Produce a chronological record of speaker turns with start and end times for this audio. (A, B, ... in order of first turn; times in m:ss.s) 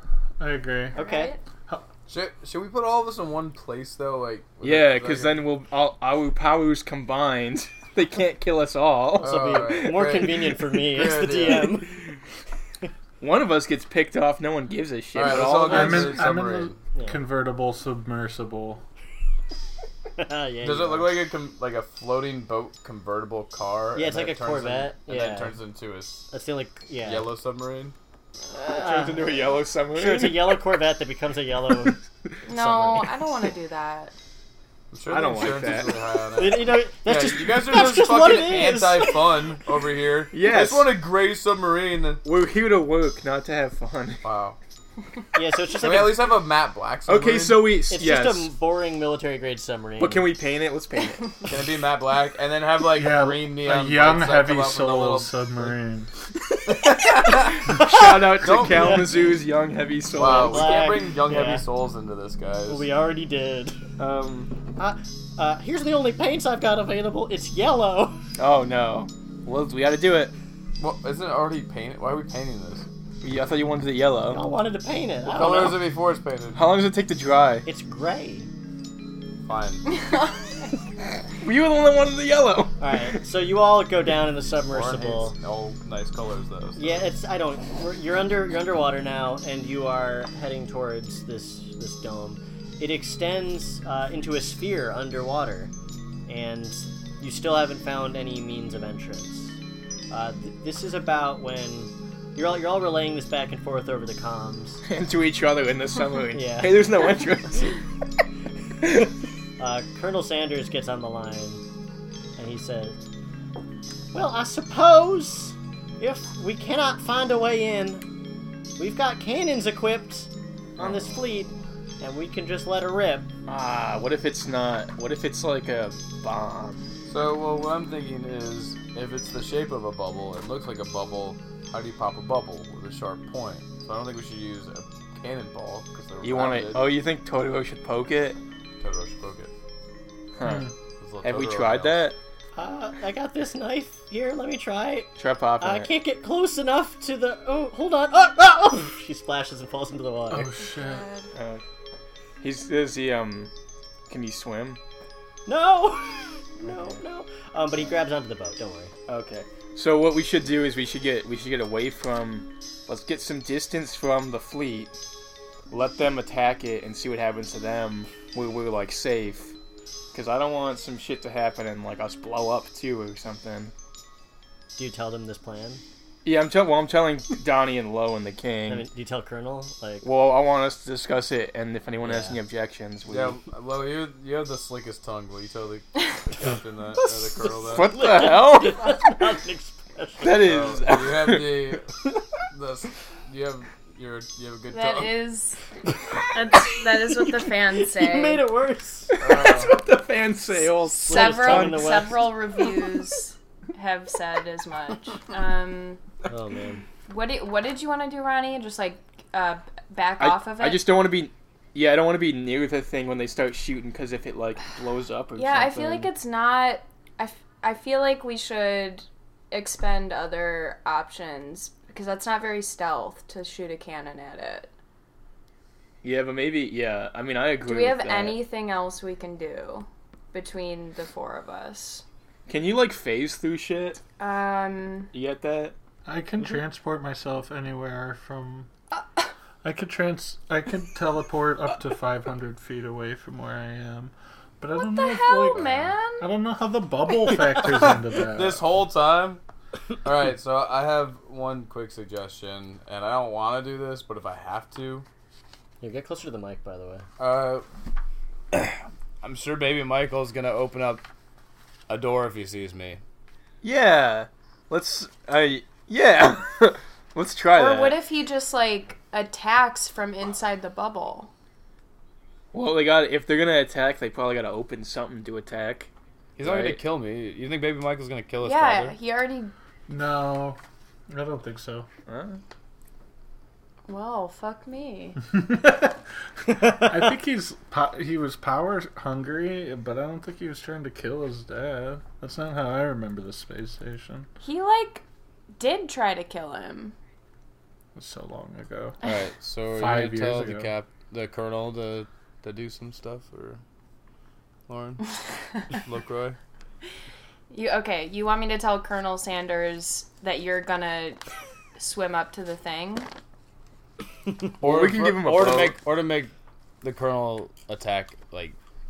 0:00.4-0:01.0 A
0:00.9-0:01.4 B
0:01.0-0:01.3 C
0:02.1-0:05.4 D
0:04.6-0:10.4 E
0:09.2-0:11.9 C
0:09.2-0:11.8 D
0:13.2-0:16.3 E
0:15.2-0:16.8 D
0:15.5-0:18.8 A
0:16.9-0:17.2 C
0:20.2-0:21.2 C
0:20.6-0:26.2 D
0:23.9-0:25.6 C
0:26.3-0:27.3 C
0:27.0-0:28.0 D
0:28.5-0:30.6 E
0:28.6-0:29.4 C
0:29.9-0:33.1 C
0:32.5-0:34.1 B
0:34.9-0:42.2 D
0:35.1-0:36.0 E
0:36.4-0:39.3 C
0:40.3-0:40.9 E
0:42.2-0:44.2 E
0:44.2-0:44.6 D
0:45.3-0:46.4 C
0:45.8-0:47.7 D
0:47.1-0:48.5 E
0:47.9-0:50.3 C
0:50.0-0:51.3 E
0:51.4-0:55.7 D
0:52.9-0:56.1 A
0:56.7-0:57.8 D
0:56.9-1:01.0 E
0:57.8-0:59.3 C
0:58.4-0:59.0 D
1:00.1-1:02.9 D
1:00.2-1:01.7 C
1:02.7-1:03.8 C
1:04.0-1:04.5 E
1:04.8-1:08.2 C
1:08.4-1:10.3 E
1:10.8-1:12.9 D
1:13.2-1:14.4 E
1:14.3-1:15.9 C
1:15.3-1:16.7 D
1:16.5-1:17.7 E
1:17.6-1:18.5 C
1:19.4-1:19.9 D
1:19.9-1:20.4 B
1:21.4-1:22.9 E
1:22.8-1:25.4 C
1:24.7-1:27.1 D
1:26.8-1:35.7 C
1:36.3-1:39.6 C
1:40.1-1:44.8 C
1:44.9-1:47.8 E
1:46.3-1:46.8 C
1:49.6-1:51.6 C
1:52.4-1:53.0 C
1:54.1-1:58.0 C
1:58.8-2:03.3 C
2:00.8-2:01.2 E
2:03.5-2:06.9 E
2:07.1-2:16.9 D
2:16.2-2:18.4 E
2:18.8-2:19.5 D
2:20.4-2:20.7 E
2:20.4-2:20.7 A
2:21.0-2:22.0 D
2:21.2-2:22.2 E
2:22.6-2:25.1 C
2:25.2-2:25.9 E
2:25.6-2:30.5 C
2:30.3-2:31.1 A
2:30.7-2:31.3 B
2:31.4-2:31.6 E
2:32.4-2:33.5 E
2:34.1-2:34.8 E
2:35.5-2:38.9 C
2:39.1-2:44.9 E
2:45.7-2:49.5 E
2:50.1-2:53.7 E
2:54.8-2:55.8 C
2:56.2-2:58.9 E
2:58.7-3:00.1 C
3:00.0-3:03.4 E
3:02.0-3:02.4 C
3:03.1-3:07.9 D
3:07.6-3:09.0 E
3:07.7-3:10.4 C
3:10.2-3:11.8 E
3:10.4-3:11.9 D
3:12.5-3:15.2 D
3:14.7-3:15.6 B
3:16.3-3:18.4 B
3:17.7-3:19.2 C
3:19.2-3:22.3 E
3:19.2-3:19.7 D
3:20.9-3:22.4 C
3:21.0-3:26.0 B
3:26.3-3:26.8 C
3:27.1-3:30.8 B
3:30.2-3:36.1 E
3:35.4-3:44.7 B
3:46.0-3:48.4 E
3:47.6-3:52.0 B
3:52.5-3:54.0 E
3:54.2-3:55.1 B
3:55.1-3:55.8 E
3:56.1-3:58.7 A
3:59.6-4:08.7 A
4:04.8-4:06.3 B
4:05.6-4:05.9 D
4:07.6-4:09.4 D
4:10.0-4:15.1 D
4:15.8-4:17.1 C
4:17.2-4:17.6 D
4:18.5-4:21.0 D
4:21.9-4:23.0 D
4:23.6-4:28.0 E
4:27.6-4:31.3 B
4:32.5-4:35.9 E
4:36.4-4:39.0 D
4:36.4-4:36.8 E
4:38.4-4:39.5 B
4:39.9-4:41.9 A
4:42.1-4:42.4 E
4:43.9-4:45.2 B
4:45.3-4:54.3 A
4:46.5-4:47.1 C
4:54.4-4:55.0 B
4:55.6-4:57.0 B
4:58.0-4:59.0 A
4:59.0-5:03.6 D
4:59.7-5:00.7 A
5:04.7-5:05.1 D
5:05.7-5:06.4 D
5:07.5-5:11.2 B
5:11.8-5:13.1 B
5:14.6-5:15.8 E
5:14.6-5:18.6 D